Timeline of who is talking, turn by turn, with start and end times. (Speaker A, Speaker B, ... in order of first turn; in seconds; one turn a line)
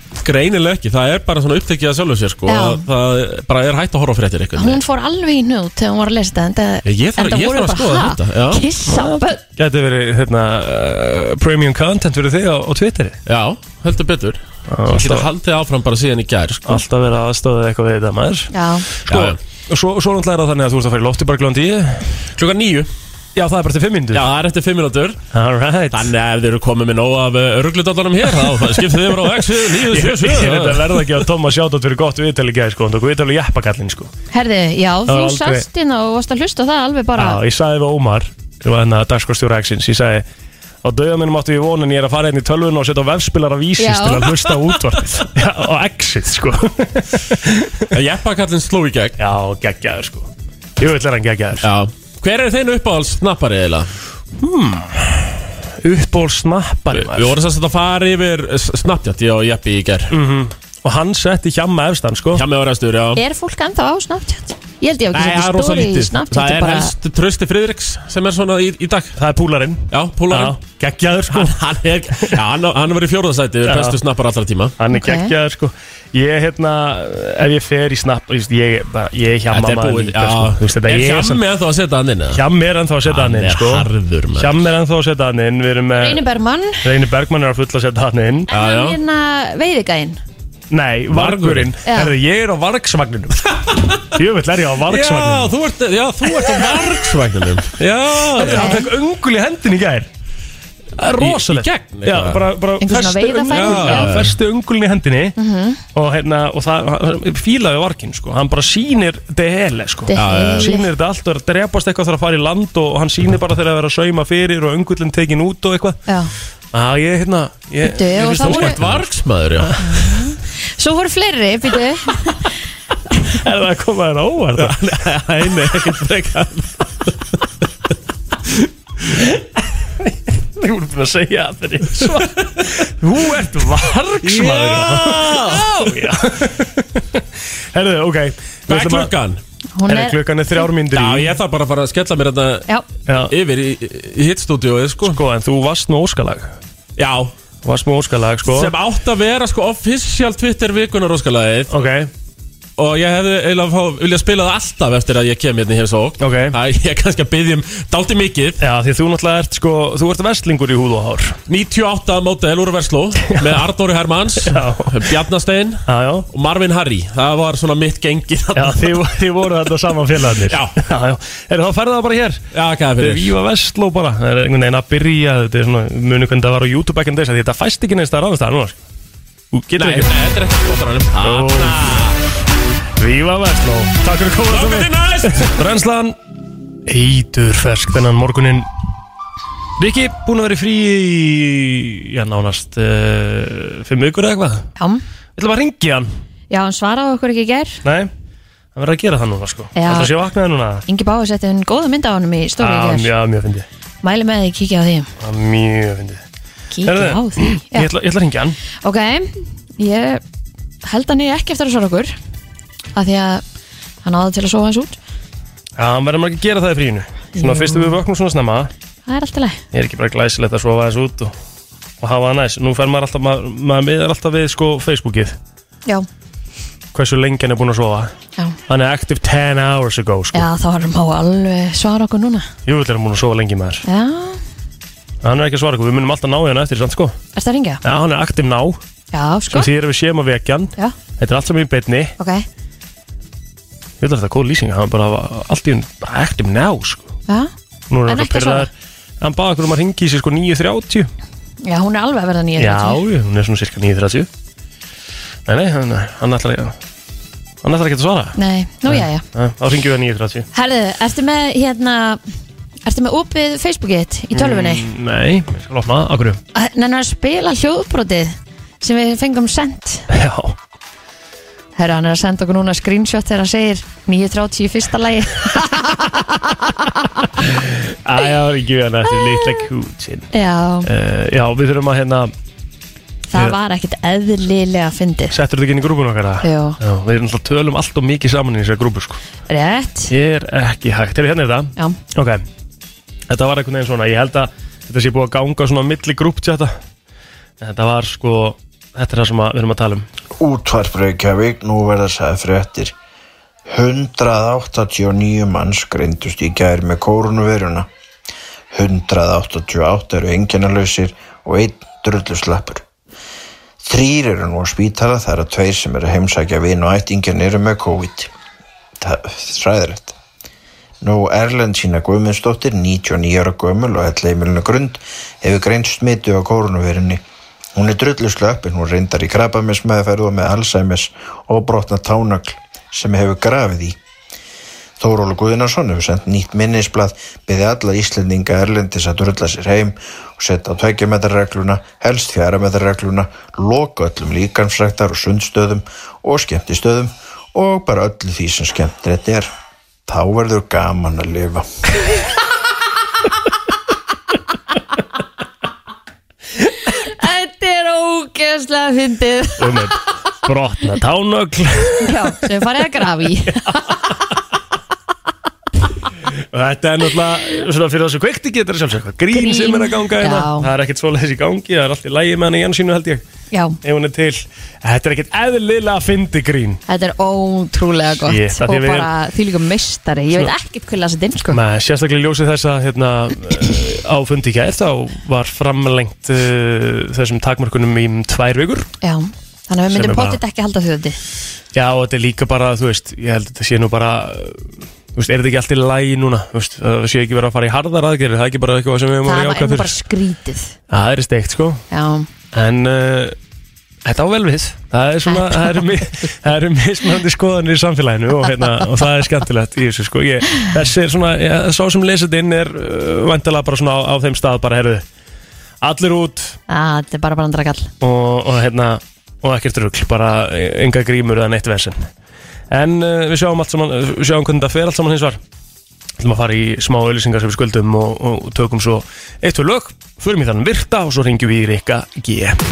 Speaker A: 0.2-4.8
Speaker B: 2.5-2.9
Speaker B: 4.5-9.4
Speaker A: 6.8-8.6
Speaker C: 8.9-13.2
Speaker A: 13.2-16.8
Speaker C: 14.7-15.3
Speaker C: 16.6-22.1
Speaker B: 18.5-18.9
Speaker A: 19.1-19.4
Speaker A: 22.3-22.9
Speaker C: 23.3-24.2
Speaker A: 24.1-25.2
Speaker C: 25.3-26.1
Speaker A: 25.9-31.2
Speaker C: 28.5-34.1
Speaker B: 34.3-37.4
Speaker C: 35.1-35.6
Speaker C: 37.1-40.2
Speaker C: 40.8-47.9
Speaker B: 43.8-44.5
Speaker A: 47.9-49.2
Speaker C: 49.2-51.7
Speaker A: 51.6-53.9
Speaker C: 54.4-57.4
Speaker A: 56.9-60.1
Speaker C: 60.1-62.4
Speaker A: 62.3-63.2
Speaker B: 63.1-66.9
Speaker A: 65.1-69.2
Speaker C: 69.1-72.4
Speaker A: 69.9-70.6
Speaker A: 71.3-74.8
Speaker C: 73.6-74.0
Speaker C: 74.8-81.4
Speaker B: 74.9-75.3
Speaker A: 79.5-82.4
Speaker C: 82.3-86.2
Speaker A: 83.0-84.6
Speaker B: 86.0-86.8
Speaker C: 86.8-88.5
Speaker B: 88.5-90.2
Speaker A: 88.5-89.0
Speaker C: 90.7-95.5
Speaker A: 91.1-91.7
Speaker B: 91.8-92.1
Speaker A: 93.7-94.1
Speaker A: 94.8-98.8
Speaker C: 96.4-96.9
Speaker C: 97.7-100.1
Speaker B: 98.4-98.9
Speaker C: 101.0-105.3
Speaker A: 101.2-102.5
Speaker B: 102.8-104.2
Speaker A: 103.5-104.4
Speaker B: 105.4-105.8
Speaker C: 105.9-116.0
Speaker B: 110.1-110.9
Speaker A: 110.1-110.7
Speaker B: 116.1-116.3
Speaker C: 116.7-119.1
Speaker B: 117.8-118.8
Speaker A: 118.1-119.8
Speaker C: 119.6-120.2
Speaker B: 119.8-122.5
Speaker C: 123.3-126.2
Speaker A: 124.5-127.1
Speaker C: 129.0-139.1
Speaker A: 132.0-132.4
Speaker A: 134.2-136.1
Speaker A: 138.7-139.4
Speaker B: 139.7-140.2
Speaker C: 139.8-141.4
Speaker A: 140.9-145.2
Speaker C: 143.1-143.3
Speaker C: 145.0-146.5
Speaker A: 147.0-147.3
Speaker C: 147.6-148.7
Speaker A: 148.4-151.8
Speaker C: 151.7-152.1
Speaker A: 152.8-158.6
Speaker C: 156.2-156.6
Speaker C: 158.6-161.4
Speaker A: 161.5-169.0
Speaker C: 163.3-163.7
Speaker C: 164.4-165.1
Speaker C: 165.8-166.3
Speaker C: 168.5-178.8
Speaker A: 170.4-170.8
Speaker A: 172.5-173.3
Speaker C: 179.5-180.1
Speaker A: 179.8-182.2
Speaker C: 181.2-182.1
Speaker C: 183.0-186.2
Speaker A: 184.4-185.7
Speaker C: 186.8-188.7
Speaker C: 189.8-194.7
Speaker B: 194.8-195.0
Speaker C: 195.3-196.1
Speaker B: 196.5-197.8
Speaker C: 197.8-198.1
Speaker C: 198.7-200.8
Speaker B: 199.7-200.1
Speaker B: 200.9-203.1
Speaker C: 202.6-203.7
Speaker B: 204.0-205.1
Speaker C: 205.2-206.2
Speaker B: 206.7-207.9
Speaker C: 206.8-208.6
Speaker B: 208.8-210.2
Speaker B: 210.8-212.2
Speaker B: 212.9-213.4
Speaker B: 214.0-215.0
Speaker C: 215.8-218.7
Speaker B: 217.3-218.0
Speaker B: 219.1-219.6
Speaker C: 219.7-221.3
Speaker C: 222.0-225.4
Speaker C: 226.9-228.1
Speaker C: 228.7-230.5
Speaker B: 230.3-232.5
Speaker C: 232.6-233.8
Speaker B: 233.8-234.4
Speaker C: 235.2-237.2
Speaker B: 237.3-237.8
Speaker C: 237.8-238.8
Speaker B: 239.1-239.7
Speaker C: 239.5-242.1
Speaker B: 242.2-242.4
Speaker C: 244.0-247.1
Speaker C: 247.9-251.1
Speaker B: 248.1-248.7
Speaker B: 251.6-253.0
Speaker C: 252.6-254.3
Speaker C: 255.4-256.8
Speaker C: 257.6-260.5
Speaker B: 258.4-259.2
Speaker B: 260.5-262.2
Speaker B: 262.9-264.9
Speaker C: 264.3-266.4
Speaker B: 266.5-270.1
Speaker C: 270.1-270.6
Speaker B: 271.8-277.3
Speaker C: 277.4-280.3
Speaker B: 280.3-280.9
Speaker C: 280.8-282.3
Speaker B: 283.3-285.4
Speaker C: 285.3-289.2
Speaker B: 286.4-286.8
Speaker B: 289.5-290.1
Speaker C: 290.1-292.4
Speaker C: 293.3-296.8
Speaker C: 297.6-300.1
Speaker D: 300.4-302.9
Speaker D: 303.7-307.9
Speaker D: 308.7-312.8
Speaker D: 313.8-318.3
Speaker D: 319.0-320.2
Speaker D: 321.0-327.2
Speaker D: 327.7-334.0
Speaker D: 335.0-349.5
Speaker D: 350.1-351.7
Speaker B: 356.9-359.9
Speaker C: 359.6-362.4
Speaker B: 362.0-364.0
Speaker C: 366.4-373.2
Speaker B: 369.3-370.7
Speaker B: 373.5-373.8
Speaker C: 373.8-376.8
Speaker B: 376.9-381.6
Speaker C: 378.2-379.1
Speaker C: 381.5-388.9
Speaker B: 389.0-391.2
Speaker C: 389.9-390.4
Speaker C: 391.7-400.0
Speaker B: 399.2-400.7
Speaker C: 400.9-401.8
Speaker B: 401.9-402.3
Speaker C: 402.5-403.4
Speaker C: 404.0-415.1
Speaker B: 405.3-406.0
Speaker C: 415.8-416.6
Speaker B: 416.7-417.9
Speaker C: 418.0-422.1
Speaker C: 422.7-425.4
Speaker C: 426.2-432.6